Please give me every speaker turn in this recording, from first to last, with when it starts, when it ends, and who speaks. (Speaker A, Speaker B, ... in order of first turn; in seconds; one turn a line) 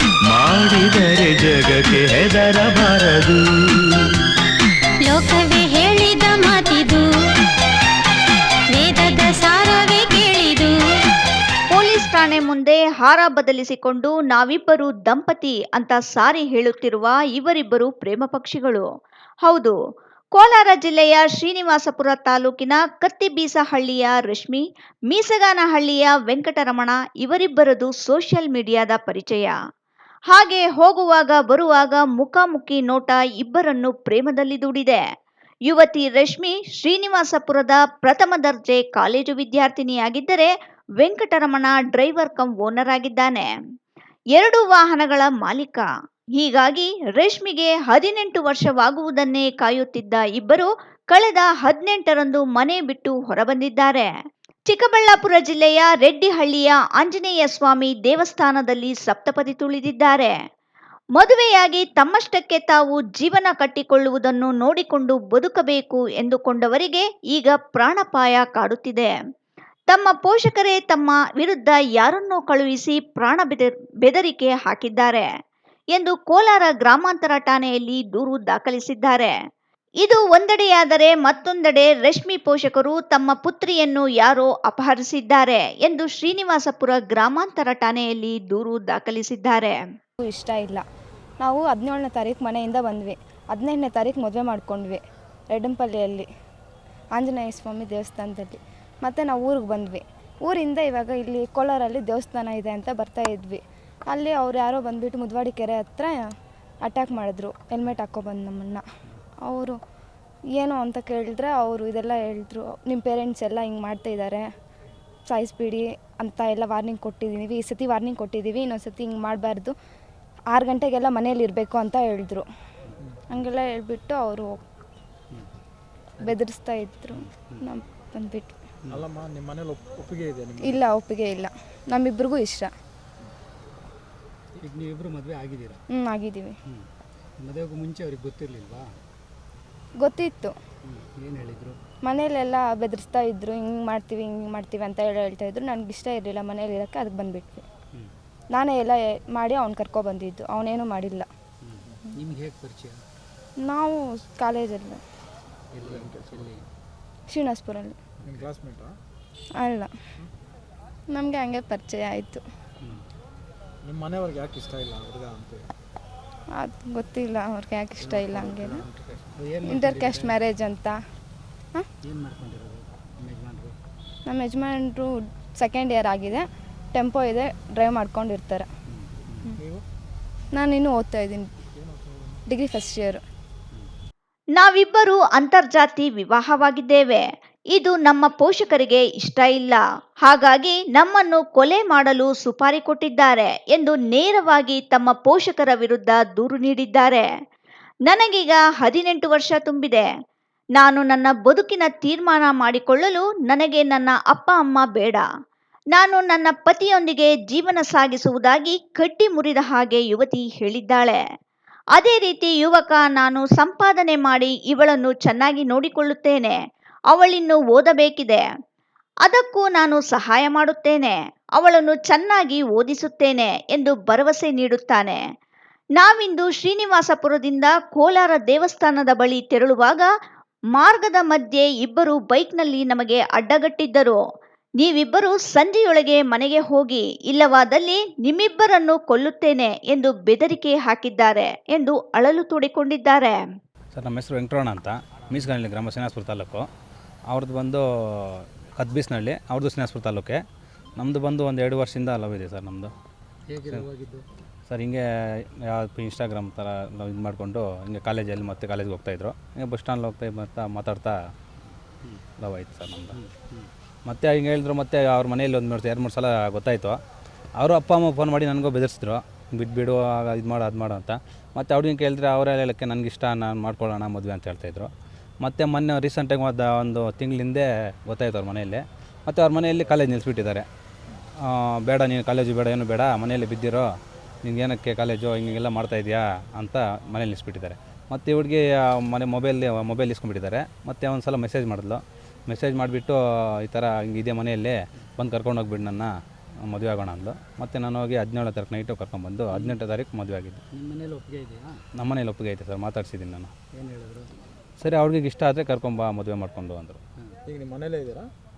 Speaker A: 0.3-3.4
Speaker B: 5.0-7.0
Speaker B: 8.7-10.8
Speaker C: 11.7-18.9
Speaker C: 19.4-19.8
Speaker C: 20.3-29.5
Speaker C: 30.3-35.0
Speaker C: 35.7-40.5
Speaker C: 41.0-43.5
Speaker C: 44.4-45.9
Speaker C: 46.4-54.1
Speaker C: 54.7-60.3
Speaker C: 61.2-69.1
Speaker C: 69.9-75.2
Speaker C: 76.0-79.3
Speaker C: 80.0-89.8
Speaker D: 90.2-90.8
Speaker D: 91.4-96.3
Speaker D: 97.2-106.3
Speaker D: 106.8-108.8
Speaker D: 109.4-109.8
Speaker D: 110.5-114.5
Speaker D: 115.3-119.7
Speaker D: 120.5-122.5
Speaker D: 123.3-124.7
Speaker D: 126.2-128.6
Speaker E: 127.1-127.6
Speaker F: 128.9-130.8
Speaker D: 130.6-132.7
Speaker E: 134.6-135.8
Speaker D: 135.9-136.6
Speaker E: 137.4-138.9
Speaker D: 140.0-140.5
Speaker E: 140.8-141.8
Speaker D: 142.0-147.7
Speaker D: 148.5-151.3
Speaker E: 151.6-153.0
Speaker D: 153.6-155.0
Speaker E: 155.7-156.6
Speaker F: 155.8-156.5
Speaker D: 157.3-158.0
Speaker E: 158.2-158.5
Speaker F: 158.2-158.9
Speaker D: 159.6-159.9
Speaker D: 161.1-162.4
Speaker F: 163.8-165.7
Speaker D: 166.6-168.8
Speaker F: 168.8-169.2
Speaker E: 169.3-170.3
Speaker D: 169.6-171.0
Speaker E: 172.0-173.8
Speaker D: 174.3-178.7
Speaker E: 178.9-179.5
Speaker F: 179.6-179.8
Speaker D: 180.5-181.5
Speaker F: 181.7-182.4
Speaker D: 182.5-183.2
Speaker C: 184.6-197.2
Speaker C: 198.1-200.1
Speaker C: 200.8-205.2
Speaker C: 205.9-211.2
Speaker C: 212.0-216.6
Speaker C: 217.1-218.4
Speaker C: 219.2-225.2
Speaker C: 226.0-230.1
Speaker C: 230.8-234.2
Speaker C: 234.8-243.4
Speaker G: 243.9-246.7
Speaker G: 247.3-250.4
Speaker G: 251.0-252.9
Speaker E: 253.5-254.2
Speaker G: 254.7-261.1
Speaker G: 262.4-263.2
Speaker E: 263.1-263.7
Speaker G: 264.1-267.0
Speaker G: 267.6-274.9
Speaker G: 275.4-280.7
Speaker G: 281.4-283.9
Speaker G: 284.4-296.1
Speaker G: 296.6-300.6
Speaker E: 300.7-301.8
Speaker G: 302.0-303.5
Speaker E: 303.7-304.3
Speaker G: 304.8-307.0
Speaker F: 307.5-308.3